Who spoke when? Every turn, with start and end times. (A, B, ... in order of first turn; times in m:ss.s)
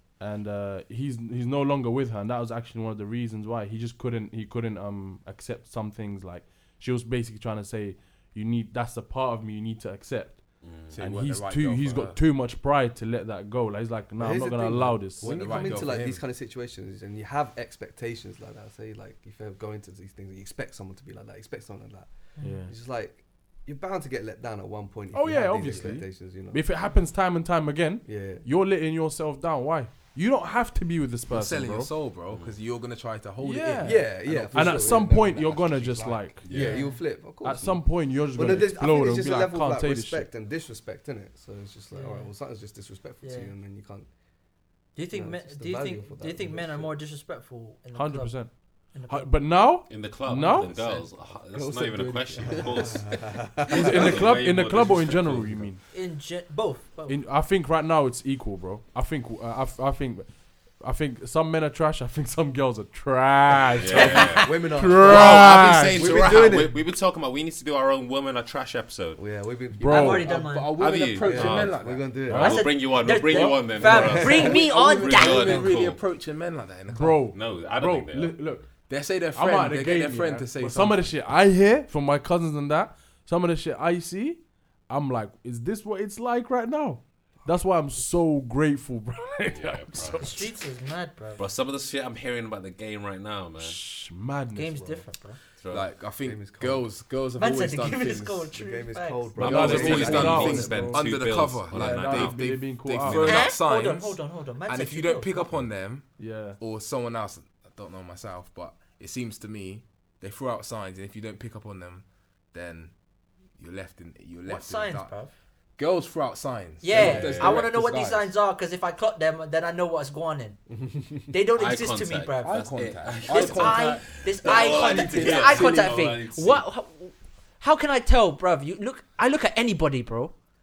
0:00.2-0:15.8 A
0:10.6-0:11.0 B
0:10.9-0:12.1 C
0:14.2-0:26.6 D
0:15.2-0:16.2 C
0:22.4-0:22.7 E
0:22.4-0:22.7 A
0:25.1-0:31.9 A
0:25.6-0:26.0 C
0:28.1-0:28.4 D
0:31.3-0:36.4 C
0:32.3-0:32.6 B
0:33.4-0:36.5 A
0:33.8-0:35.2 D
0:36.4-0:36.8 B
0:36.5-0:44.1 D
0:36.5-0:37.0 E
0:37.4-0:40.3 A
0:41.9-0:42.3 E
0:43.2-0:43.5 E
0:44.9-0:49.3 E
0:45.1-0:46.9 D
0:47.9-0:50.7 A
0:49.9-0:55.7 B
0:50.6-0:53.1 C
0:52.8-0:54.2 D
0:53.7-0:55.8 A
0:55.9-0:57.2 E
0:57.1-1:06.0 A
1:03.8-1:09.2 B
1:03.9-1:04.3 E
1:04.0-1:06.7 D
1:05.3-1:06.6 C
1:09.2-1:10.2 D
1:09.8-1:10.3 A
1:09.8-1:10.7 E
1:09.9-1:17.3 C
1:10.8-1:16.0 B
1:11.2-1:12.6 D
1:12.3-1:15.7 E
1:14.0-1:14.3 D
1:16.9-1:18.7 A
1:17.3-1:18.4 B
1:18.9-1:21.1 C
1:19.3-1:30.5 A
1:29.5-1:30.4 B
1:30.2-1:31.4 E
1:31.4-1:33.8 B
1:33.6-1:35.1 A
1:34.5-1:35.4 E
1:35.6-1:35.9 B
1:35.7-1:38.5 C
1:36.2-1:36.9 D
1:37.4-1:40.1 E
1:38.5-1:40.8 D
1:39.4-1:42.4 B
1:39.4-1:41.0 A
1:39.4-1:46.1 C
1:41.7-1:43.5 A
1:43.1-1:45.5 E
1:46.2-1:46.6 A
1:46.6-1:52.9 C
1:53.6-1:55.1 C
1:54.4-1:55.3 E
1:55.8-1:58.3 C
1:56.8-2:00.6 E
1:56.9-1:57.6 B
2:00.7-2:01.3 D
2:01.3-2:02.7 E
2:01.6-2:06.6 B
2:02.4-2:06.1 C
2:03.3-2:10.4 E